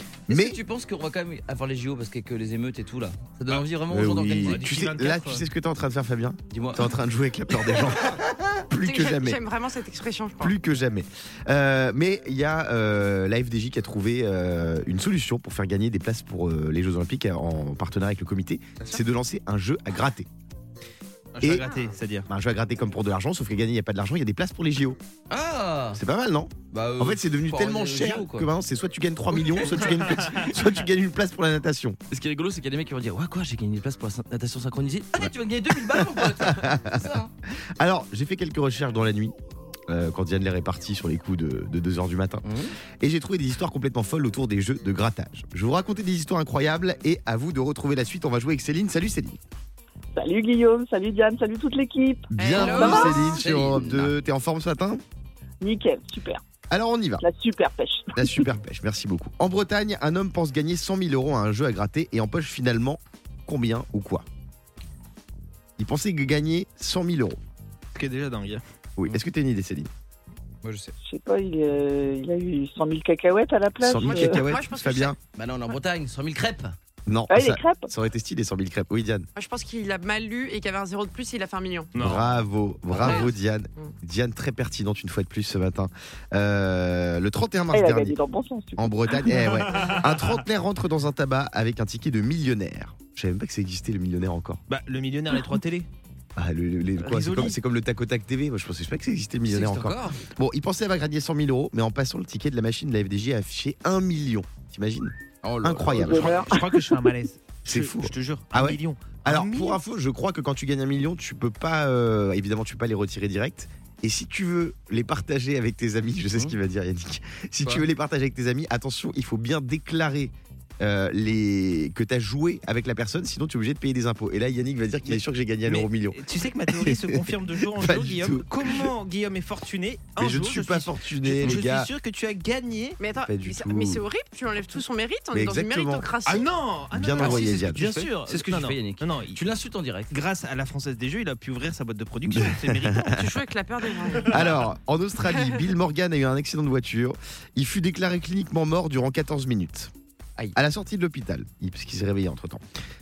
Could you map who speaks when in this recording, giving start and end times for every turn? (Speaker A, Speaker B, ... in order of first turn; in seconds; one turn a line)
Speaker A: 0.3-0.6
Speaker B: 0.3-4.7
Speaker A: 3.9-9.4
Speaker C: 4.4-5.4
Speaker B: 6.5-6.9
Speaker D: 8.8-10.5
Speaker A: 10.4-20.3
Speaker C: 21.3-22.3
Speaker A: 21.4-21.7
Speaker A: 22.3-25.0
Speaker B: 25.3-26.0
Speaker A: 25.9-32.0
Speaker B: 26.7-28.5
Speaker C: 29.7-30.5
Speaker B: 32.1-37.3
Speaker A: 35.2-37.2
Speaker A: 37.8-39.3
Speaker A: 39.9-42.5
Speaker B: 42.4-42.7
Speaker A: 43.0-49.4
Speaker E: 50.1-53.3
Speaker A: 52.3-55.0
Speaker D: 52.4-53.4
Speaker B: 52.6-54.1
Speaker E: 55.6-56.4
Speaker A: 56.7-57.2
Speaker E: 57.2-58.4
Speaker A: 58.1-64.2
Speaker A: 65.8-67.4
Speaker C: 67.9-68.6
Speaker A: 69.0-69.9
Speaker B: 70.6-70.9
Speaker E: 71.0-74.4
Speaker A: 73.8-75.2
Speaker D: 74.0-75.1
Speaker B: 75.3-76.7
Speaker A: 77.1-79.3
Speaker E: 77.3-77.9
Speaker D: 79.3-81.9
Speaker C: 81.9-82.4
Speaker A: 82.0-88.2
Speaker B: 82.9-83.3
Speaker D: 83.0-83.9
Speaker E: 87.7-89.5
Speaker A: 88.8-94.6
Speaker C: 89.3-90.4
Speaker C: 94.7-95.9
Speaker A: 96.3-106.4
Speaker C: 97.0-97.6
Speaker B: 99.5-100.2
Speaker B: 105.4-106.5
Speaker E: 105.9-107.0
Speaker C: 106.1-109.8
Speaker A: 107.7-128.9
Speaker C: 125.0-133.0
Speaker A: 130.2-131.9
Speaker D: 133.0-136.5
Speaker A: 133.2-134.0
Speaker A: 135.3-136.1
Speaker C: 136.2-139.4
Speaker A: 136.9-137.9
Speaker B: 137.2-140.1
Speaker C: 140.1-143.3
Speaker A: 142.3-143.2
Speaker D: 143.1-144.3
Speaker C: 144.1-144.7
Speaker A: 144.3-149.9
Speaker A: 150.5-152.6